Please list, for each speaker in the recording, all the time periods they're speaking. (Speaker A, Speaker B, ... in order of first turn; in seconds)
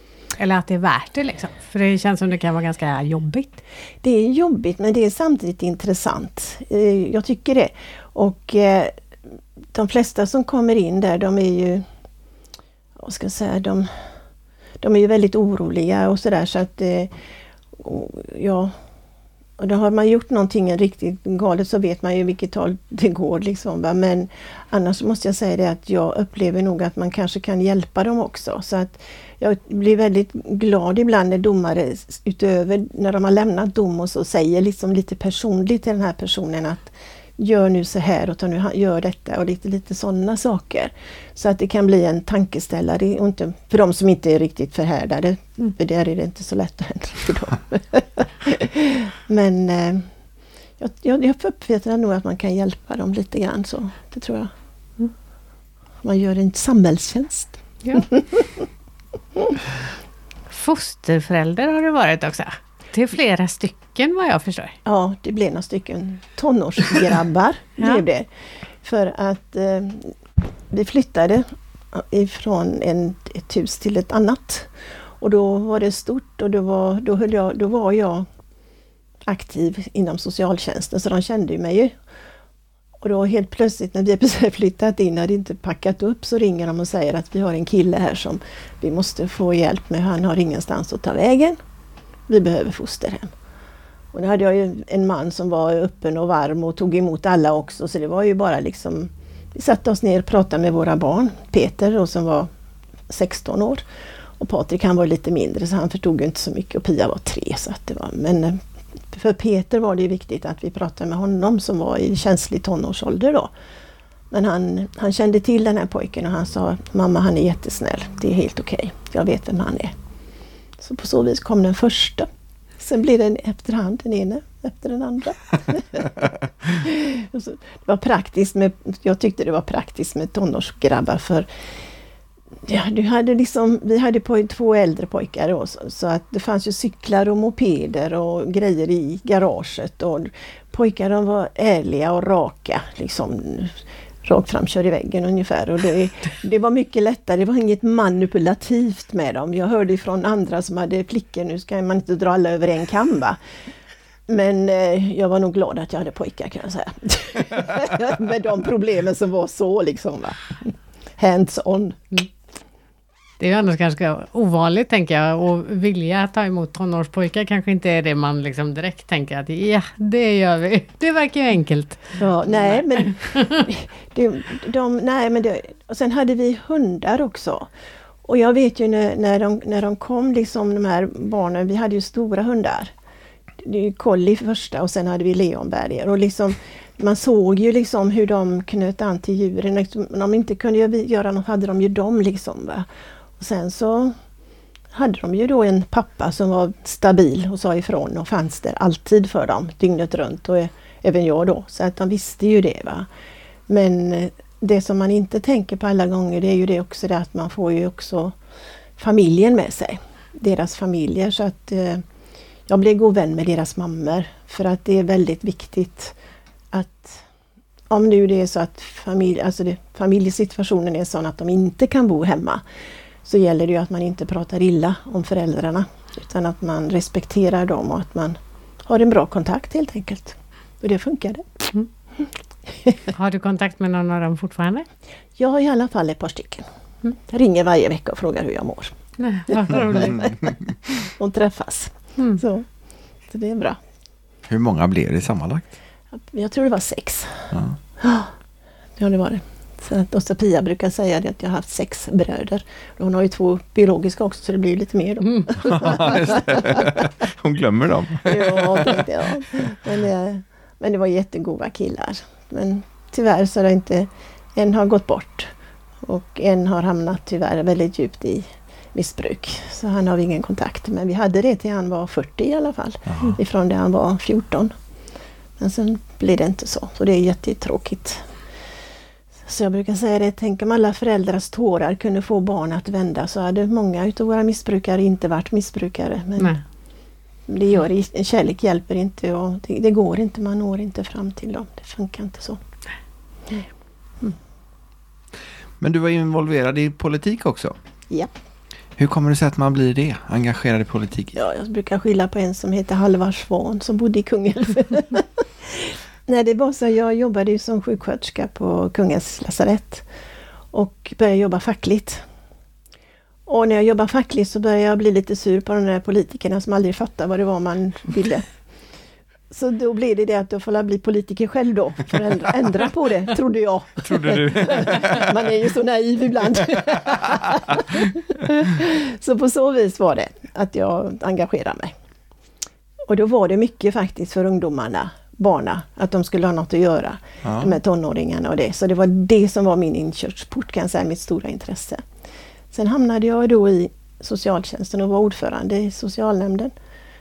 Speaker A: 0.4-3.6, 60.5-64.8, 163.4-173.7, 233.1-234.9, 239.2-240.2
Speaker B: 4.0-8.9, 9.7-11.9, 13.0-13.9, 14.8-17.1, 17.8-18.7, 19.6-50.1, 50.8-54.5, 56.0-58.5, 64.8-68.3, 68.8-70.2, 70.7-78.3, 79.3-82.0, 83.0-91.6, 92.3-93.3, 94.1-102.5, 103.1-103.8, 104.4-113.5, 114.3-119.9, 120.8-131.5, 132.7-153.4, 154.3-162.2, 172.2-177.7, 178.2-182.9, 183.6-192.9, 193.4-194.2, 194.9-203.1, 203.7-208.3, 209.0-212.0, 212.7-216.2, 216.7-217.2, 217.9-222.6, 223.2-233.1, 235.4-239.0, 239.5-242.7, 243.3-243.8, 246.2-248.3, 249.0-257.1, 258.2-265.5, 266.0-274.7, 275.6-278.3, 279.5-286.6, 287.5-292.6, 301.4-310.1, 310.7-312.2, 313.5-318.5, 319.5-331.9, 333.1-342.0, 342.7-346.7
Speaker C: 240.0-240.3, 244.5-245.7, 255.6-259.1, 273.1-273.4, 295.8-297.8, 299.0-301.4, 324.1-325.4, 337.4-337.8